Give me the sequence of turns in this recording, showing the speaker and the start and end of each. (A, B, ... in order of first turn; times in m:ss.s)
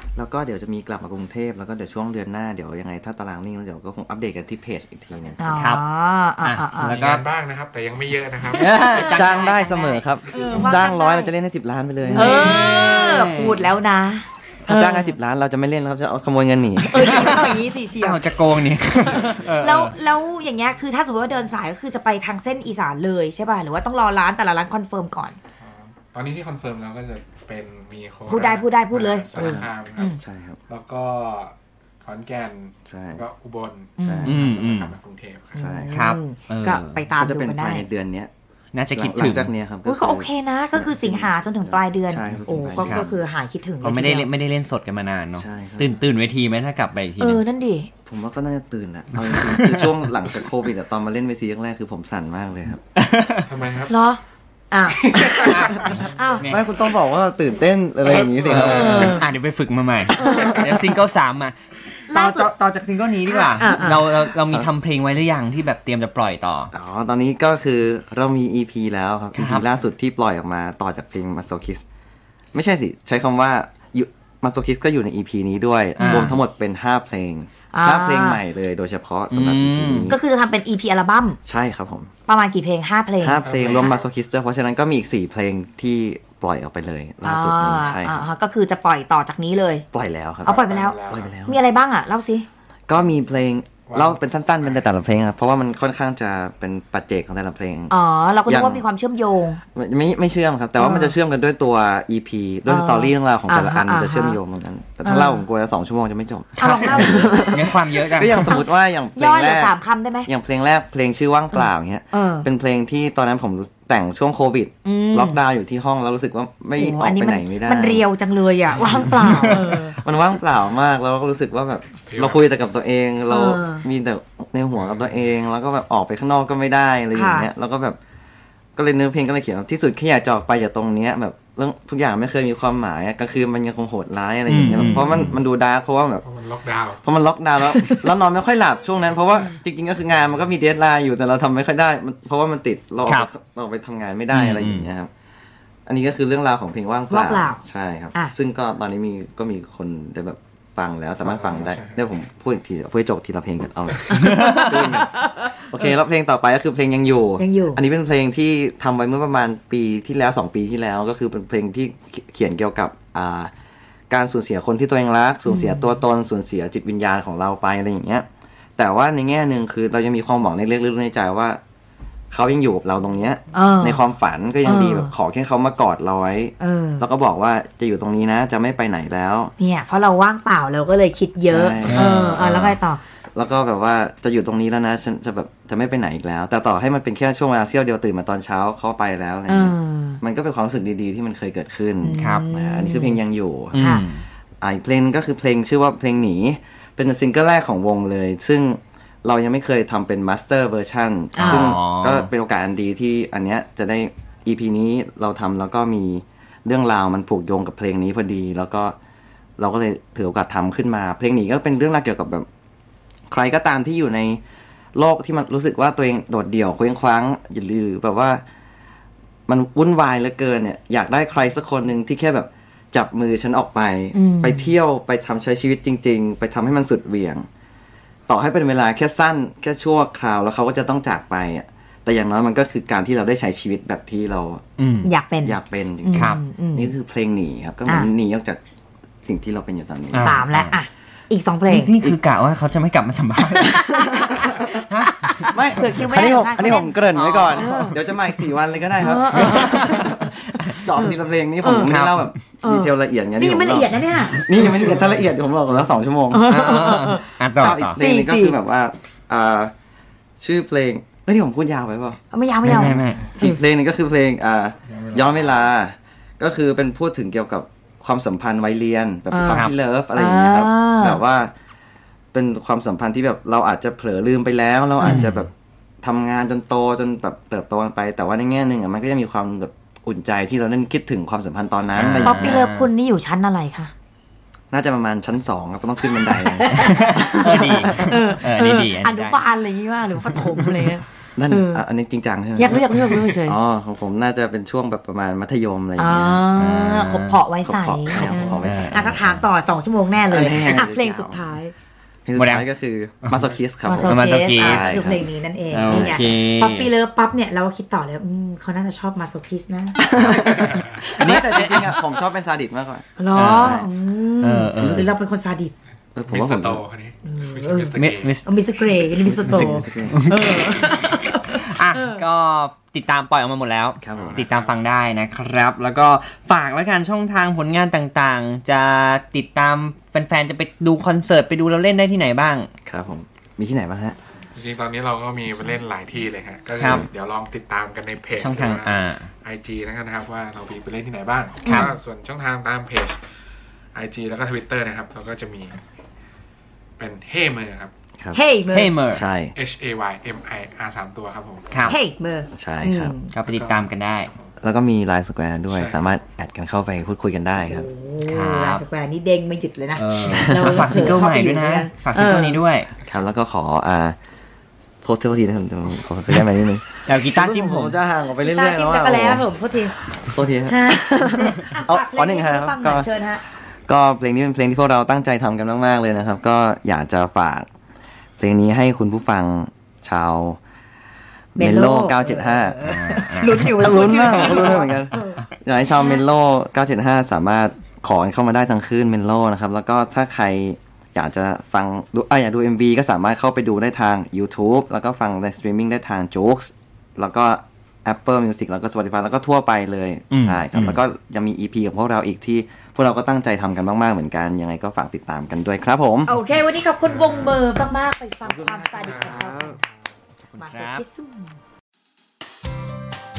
0:00.2-0:05.6 A
0:05.4-0:07.0 B
0:05.5-0:05.8 C
0:06.4-0:07.2 C
0:06.8-0:08.8 D
0:08.5-0:09.6 C
0:08.6-0:11.3 B
0:09.0-0:12.6 A
0:12.0-0:13.6 C
0:12.1-0:15.1 B
0:14.6-0:17.3 A
0:16.9-0:18.2 B
0:17.0-0:19.9 C
0:19.1-0:25.4 B
0:25.6-0:30.2 D
0:28.3-0:30.2 B
0:29.3-0:30.6 A
0:30.7-0:35.7 D
0:32.8-0:33.2 A
0:34.0-0:34.3 B
0:34.0-0:34.4 A
0:34.2-0:35.0 C
0:35.6-0:36.0 A
0:35.6-0:37.9 B
0:35.9-0:37.0 C
0:37.1-0:38.3 A
0:38.7-0:39.5 C
0:38.9-0:43.1 A
0:39.8-0:44.3 B
0:42.8-0:43.2 C
0:43.8-0:47.4 C
0:45.4-0:46.0 A
0:47.2-0:47.9 B
0:48.0-0:52.8 A
0:49.2-0:49.9 C
0:52.9-0:53.5 C
0:53.4-0:53.9 D
0:53.9-0:54.2 B
0:54.7-0:56.4 B
0:55.1-0:55.7 D
0:55.4-0:56.7 C
0:56.4-0:59.2 A
0:58.0-1:01.6 C
0:58.4-0:59.3 B
1:00.1-1:00.9 B
1:02.1-1:06.7 C
1:02.1-1:02.5 B
1:03.3-1:04.2 B
1:06.7-1:11.8 A
1:09.3-1:09.6 C
1:12.5-1:20.2 A
1:16.0-1:16.4 C
1:17.7-1:18.4 B
1:19.3-1:20.1 C
1:20.1-1:21.4 B
1:21.4-1:22.1 A
1:22.3-1:24.0 B
1:23.2-1:28.2 A
1:23.4-1:23.9 D
1:27.2-1:29.8 B
1:29.9-1:31.6 A
1:30.4-1:31.4 D
1:30.4-1:32.4 B
1:32.9-1:38.8 A
1:33.8-1:34.8 D
1:37.9-1:39.6 B
1:39.7-1:49.7 A
1:40.8-1:41.1 B
1:42.7-1:44.4 B
1:45.0-1:45.4 B
1:46.6-1:47.7 B
1:46.6-1:48.5 C
1:48.5-1:50.3 B
1:50.2-1:58.0 A
1:51.5-1:52.5 B
1:54.8-1:55.4 B
1:56.8-2:00.0 B
1:58.9-2:08.0 A
2:02.1-2:02.4 D
2:03.3-2:03.8 B
2:04.7-2:05.2 D
2:07.1-2:07.5 B
2:08.8-2:16.2 A
2:14.5-2:15.3 C
2:16.2-2:17.0 D
2:17.0-2:25.1 A
2:24.3-2:24.9 C
2:25.8-2:43.5 A
2:27.1-2:27.6 B
2:31.2-2:32.0 D
2:34.1-2:35.7 B
2:34.3-2:34.8 C
2:37.4-2:37.8 B
2:44.1-2:48.2 A
2:45.4-2:45.9 B
2:48.8-2:51.6 A
2:52.3-2:59.5 A
2:53.5-2:54.0 B
2:54.6-2:55.1 B
2:56.6-2:57.0 B
2:59.6-3:03.0 B
3:01.4-3:02.6 A
3:01.8-3:02.8 C
3:03.3-3:13.8 A
3:09.5-3:10.2 B
3:12.0-3:13.2 B
3:12.1-3:12.4 C
3:13.7-3:14.2 C
3:13.8-3:14.0 B
3:14.6-3:28.9 A
3:21.3-3:21.7 B
3:21.4-3:22.3 C
3:29.6-3:32.5 A
3:33.3-3:34.4 A
3:34.9-3:38.4 A
3:39.5-3:47.4 A
3:44.1-3:44.7 B
3:48.3-3:54.6 A
3:54.8-3:55.1 C
3:55.0-3:56.9 B
3:55.4-3:58.6 A
3:56.1-3:56.4 C
3:57.8-3:58.1 B
3:59.2-4:00.4 A
4:00.1-4:00.8 C
4:00.1-4:01.9 B
4:01.7-4:05.6 C
4:03.5-4:08.0 B
4:05.5-4:16.7 A
4:09.0-4:11.9 B
4:09.3-4:10.1 C
4:11.9-4:12.3 C
4:12.6-4:14.5 B
4:14.7-4:15.1 D
4:16.3-4:18.6 B
4:16.5-4:18.0 C
4:17.6-4:19.7 A
4:20.4-4:31.5 A
4:22.3-4:23.6 B
4:22.6-4:23.2 C
4:24.9-4:25.7 D
4:29.3-4:31.2 B
4:32.3-4:35.5 A
4:35.0-4:35.3 B
4:35.0-4:35.5 C
4:36.0-4:42.6 A
4:41.9-4:42.9 C
4:42.2-4:43.9 B
4:44.7-4:46.9 A
4:46.3-4:51.8 B
4:46.7-4:49.4 C
4:51.4-4:56.5 A
4:52.6-4:53.6 B
4:56.0-5:01.7 B
4:56.5-4:57.4 C
4:57.6-4:59.4 A
4:58.1-4:59.3 C
4:58.2-4:58.6 D
5:00.2-5:01.4 A
5:02.2-5:06.3 A
5:02.4-5:02.7 C
5:03.8-5:11.8 B
5:04.0-5:05.0 C
5:05.7-5:06.9 C
5:10.1-5:13.9 A
5:10.5-5:11.0 D
5:11.2-5:11.9 C
5:13.2-5:15.7 B
5:13.3-5:13.8 C
5:14.4-5:15.1 C
5:16.1-5:16.8 A
5:16.3-5:18.4 D
5:17.2-5:17.9 B
5:17.9-5:18.4 C
5:18.4-5:22.2 B
5:19.2-5:20.2 A
5:19.4-5:20.7 C
5:21.5-5:32.7 C
5:24.0-5:24.4 A
5:24.1-5:24.7 D
5:32.8-5:34.2 A
5:34.5-5:43.2 D
5:36.8-5:37.1 C
5:38.3-5:39.3 C
5:41.6-5:41.9 C
5:43.9-5:45.8 D
5:47.0-5:47.9 D
5:48.3-5:49.0 B
5:48.7-5:49.2 C
5:49.1-5:49.5 A
5:49.5-5:51.8 D
5:51.7-5:52.0 C
5:51.8-5:53.3 B
5:52.5-5:53.2 A
5:53.3-5:54.3 C
5:53.5-5:53.9 D
5:54.6-5:57.9 A
5:55.7-5:56.0 D
5:57.6-6:02.6 B
5:58.2-5:58.8 C
6:00.0-6:02.9 C
6:00.3-6:00.8 A
6:03.0-6:04.2 A
6:05.0-6:09.5 A
6:07.0-6:08.0 C
6:08.4-6:09.9 B
6:10.2-6:10.8 A
6:10.6-6:13.4 B
6:11.5-6:13.1 A
6:13.9-6:17.7 A
6:18.4-6:20.6 A
6:21.5-6:22.8 A
6:21.6-6:26.2 B
6:22.8-6:23.7 C
6:23.6-6:46.3 A
6:40.3-6:41.0 C
6:46.2-6:49.8 B
6:47.1-6:47.6 D
6:48.4-6:49.8 A
6:49.0-6:49.4 D
6:50.6-6:51.0 C
6:50.6-6:51.6 B